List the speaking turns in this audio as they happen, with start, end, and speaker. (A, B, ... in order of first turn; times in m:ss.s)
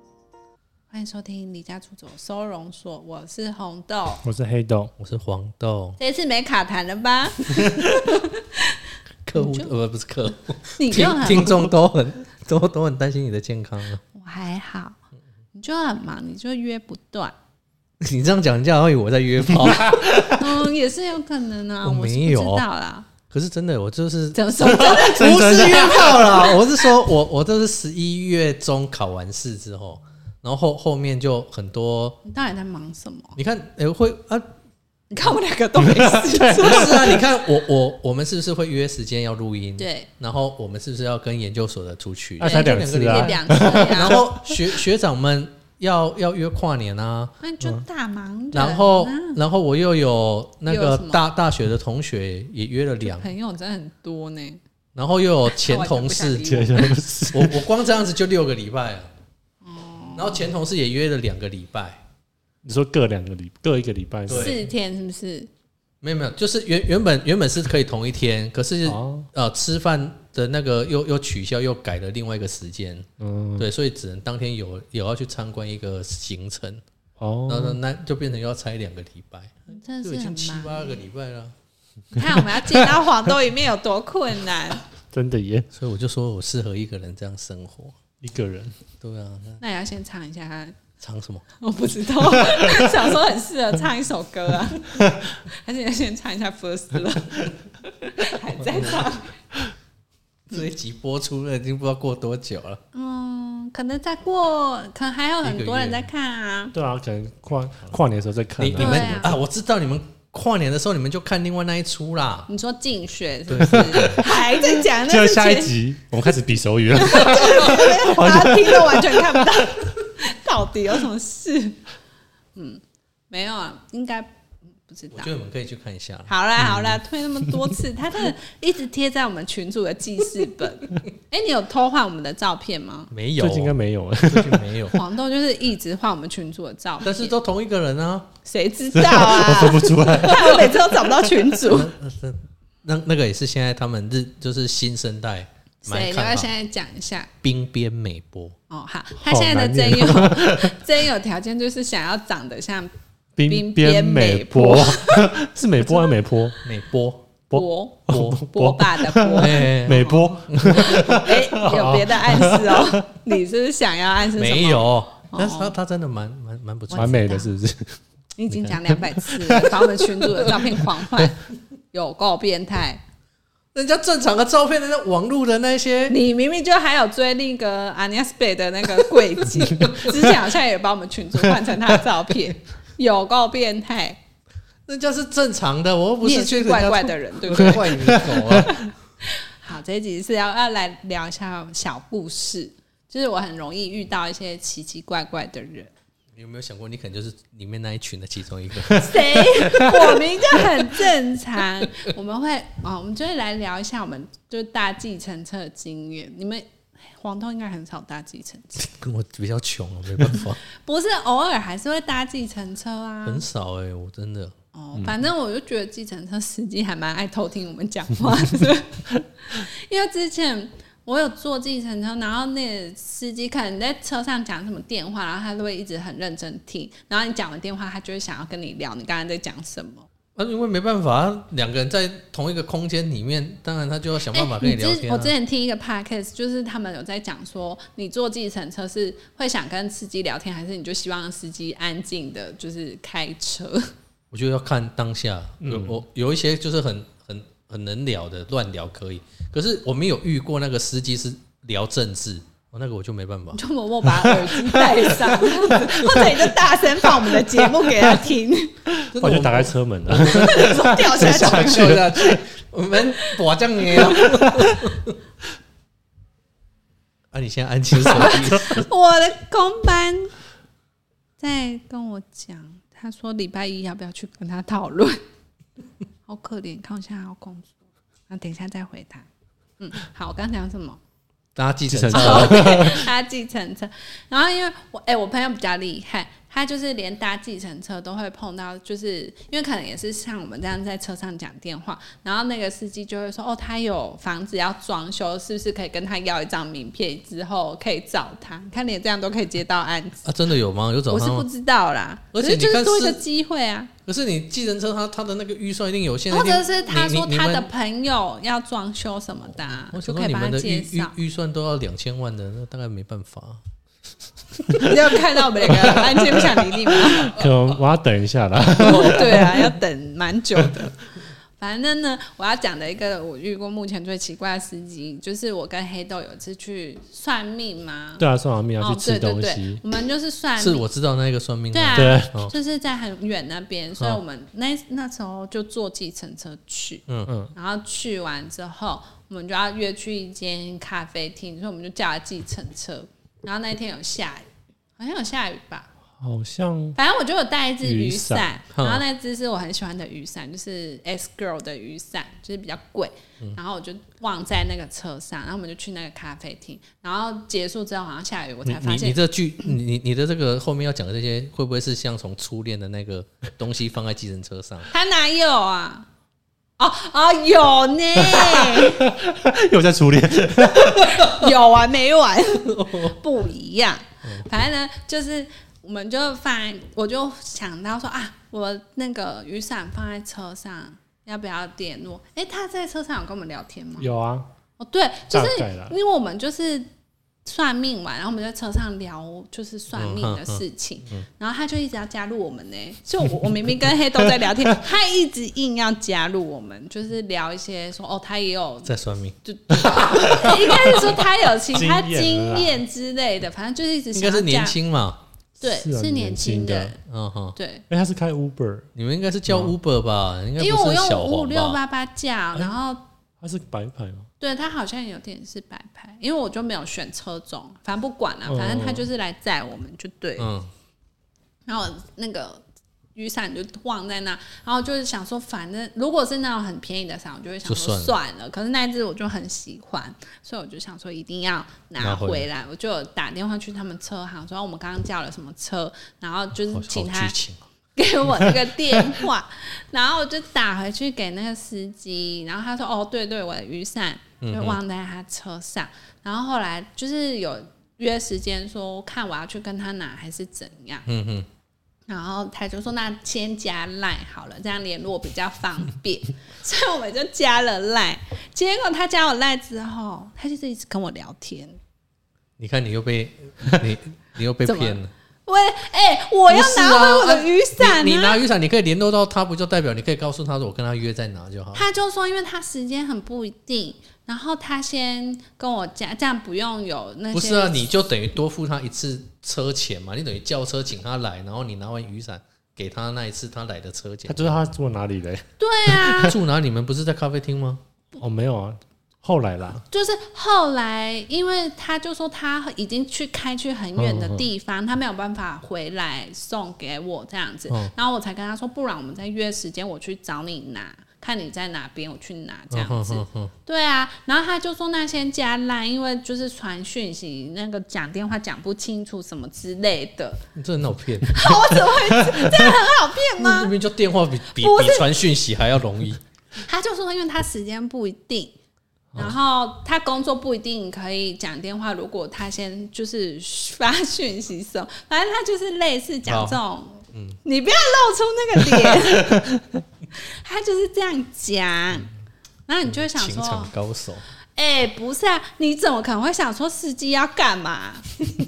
0:00.9-0:04.2 A
0:04.2-0:04.9 B
0:05.0-0:06.0 C
0:06.0-0:08.8 A
0:09.2-0:14.0 C
0:09.3-0:09.7 A
0:10.8-0:11.6 A
0:14.1-0:15.0 A
0:15.5-0:17.3 A
0:18.0-0:20.3 C
0:19.7-0:20.4 B
0:20.2-0:23.1 A
0:21.8-0:22.6 C
0:23.3-0:32.2 C
0:24.3-0:26.8 A
0:25.3-0:26.0 B
0:32.2-0:33.4 A
0:33.4-0:34.5 C
0:35.1-0:37.2 A
0:35.8-0:37.2 B
0:36.5-0:47.4 C
0:39.8-0:40.1 A
0:42.4-0:44.6 B
0:42.4-0:44.2 A
0:47.4-0:49.4 A
0:48.5-0:53.3 C
0:50.7-0:51.2 A
0:53.0-0:54.6 A
0:54.9-0:56.6 C
0:55.5-0:56.9 A
0:56.4-0:57.6 B
0:57.3-0:59.1 C
0:59.6-1:00.5 A
1:00.2-1:02.0 C
1:02.6-1:04.6 B
1:04.3-1:04.6 C
1:04.3-1:05.5 A
1:06.0-1:13.1 C
1:08.8-1:09.3 B
1:13.2-1:13.7 B
1:13.6-1:16.8 C
1:17.2-1:17.8 B
1:17.5-1:21.5 C
1:19.7-1:21.0 A
1:22.1-1:24.8 A
1:22.5-1:22.8 B
1:25.1-1:25.7 B
1:25.7-1:28.0 C
1:28.2-1:28.8 B
1:29.0-1:29.6 C
1:29.6-1:30.8 A
1:31.0-1:31.5 C
1:31.6-1:39.3 A
1:34.9-1:35.3 B
1:38.6-1:39.1 C
1:40.5-1:42.8 C
1:42.9-1:46.7 A
1:45.4-1:46.0 C
1:46.7-1:49.4 B
1:48.6-1:52.5 C
1:48.8-1:49.4 A
1:52.5-1:55.7 A
1:53.5-1:54.2 C
1:53.8-1:59.9 B
1:57.0-2:01.8 A
1:57.3-1:57.6 C
2:02.5-2:04.3 A
2:04.8-2:05.3 A
2:05.1-2:07.0 C
2:06.3-2:13.1 A
2:13.1-2:15.0 C
2:13.4-2:14.8 B
2:14.9-2:17.3 A
2:17.0-2:18.3 C
2:18.4-2:21.9 A
2:18.9-2:21.1 B
2:21.6-2:26.5 C
2:25.8-2:27.3 A
2:27.4-2:28.5 C
2:28.7-2:32.9 A
2:29.2-2:30.8 B
2:33.4-2:36.6 B
2:33.4-2:35.3 A
2:36.6-2:37.3 C
2:37.5-2:43.1 B
2:37.5-2:45.7 A
2:38.1-2:38.4 C
2:39.3-2:41.2 C
2:44.4-2:47.2 C
2:46.9-2:47.5 A
2:46.9-2:48.0 B
2:48.4-2:51.4 A
2:48.9-2:50.0 B
2:51.9-2:53.0 A
2:53.7-2:56.2 C
2:56.1-3:04.2 A
2:59.8-3:00.3 C
3:04.9-3:08.8 C
3:06.2-3:15.9 A
3:07.8-3:08.7 B
3:16.4-3:19.8 C
3:18.9-3:28.9 A
3:28.8-3:30.6 C
3:30.7-3:33.4 A
3:33.2-3:34.5 C
3:34.7-3:50.1 A
3:50.4-3:55.3 C
3:54.3-4:03.9 A
4:04.3-4:13.6 C
4:05.6-4:06.0 B
4:13.5-4:18.8 A
4:17.6-4:17.9 B
4:18.9-4:22.3 B
4:19.1-4:25.1 C
4:20.2-4:22.4 A
4:23.0-4:23.4 A
4:23.9-4:24.5 A
4:24.2-4:24.6 B
4:27.3-4:28.9 C
4:28.1-4:30.3 A
4:31.4-4:35.2 A
4:36.2-4:37.8 A
4:38.3-4:39.3 A
4:39.8-4:41.0 A
4:41.5-4:42.9 C
4:41.9-4:43.0 B
4:42.1-5:00.3 A
5:00.2-5:01.5 C
5:01.1-5:03.9 A
5:02.3-5:03.2 C
5:04.0-5:07.7 C
5:06.3-5:11.1 A
5:09.7-5:13.6 C
5:14.6-5:15.0 C
5:14.7-5:17.5 A
5:17.1-5:19.7 B
5:18.8-5:21.0 A
5:21.6-5:28.2 A
5:28.2-5:29.8 B
5:28.8-5:30.8 A
5:30.6-5:32.5 C
5:31.7-5:44.5 A
5:31.9-5:32.3 B
5:37.1-5:37.3 C
5:37.3-5:37.5 B
5:45.0-5:45.9 A
5:46.2-5:47.0 B
5:47.0-5:59.2 A
5:47.8-5:48.5 B
5:48.7-5:49.0 C
5:58.8-6:04.9 C
6:04.9-6:06.1 A
6:06.8-6:09.1 A
6:08.4-6:11.2 B
6:10.9-6:24.1 A
6:12.7-6:13.1 C
6:24.0-6:24.5 B
6:24.8-6:26.9 A
6:25.3-6:25.9 B
6:27.4-6:44.8 A
6:29.9-6:31.2 C
6:38.8-6:39.4 C
6:39.8-6:42.8 B
6:40.5-6:41.1 C
6:44.1-6:45.2 C
6:45.6-6:47.0 B
6:45.6-6:47.0 A
6:47.0-6:47.6 C
6:47.5-6:47.8 A
6:47.9-6:48.9 B
6:48.9-6:51.8 C
6:49.5-6:49.7 B
6:50.6-6:53.0 A
6:53.4-6:54.3 B
6:54.4-7:00.5 A
6:58.4-6:59.0 B
7:00.4-7:00.7 C
7:01.7-7:02.6 A
7:03.1-7:17.3 A
7:07.6-7:08.1 C
7:12.0-7:12.4 C
7:16.7-7:17.6 C
7:18.0-7:31.0 A
7:24.4-7:24.8 C
7:31.1-7:31.5 C
7:32.1-7:41.8 A
7:42.6-7:45.1 C
7:44.6-7:48.4 A
7:46.5-7:51.8 C
7:51.7-7:57.9 A
7:57.3-8:04.6 C
8:04.3-8:06.4 B
8:05.6-8:06.4 A
8:06.2-8:07.8 C
8:08.2-8:09.8 B
8:09.9-8:30.4 A
8:14.0-8:14.4 B
8:22.7-8:23.5 C
8:30.5-8:31.5 C
8:31.3-8:33.7 A
8:32.1-8:32.6 B
8:33.4-8:36.2 C
8:34.5-8:35.1 A
8:36.6-8:38.6 A
8:39.1-8:49.5 A
8:46.2-8:46.6 C
8:47.1-8:47.4 C
8:49.3-8:49.6 B
8:50.1-8:52.1 A
8:52.7-8:53.7 A
8:52.9-8:54.2 C
8:54.5-8:58.1 A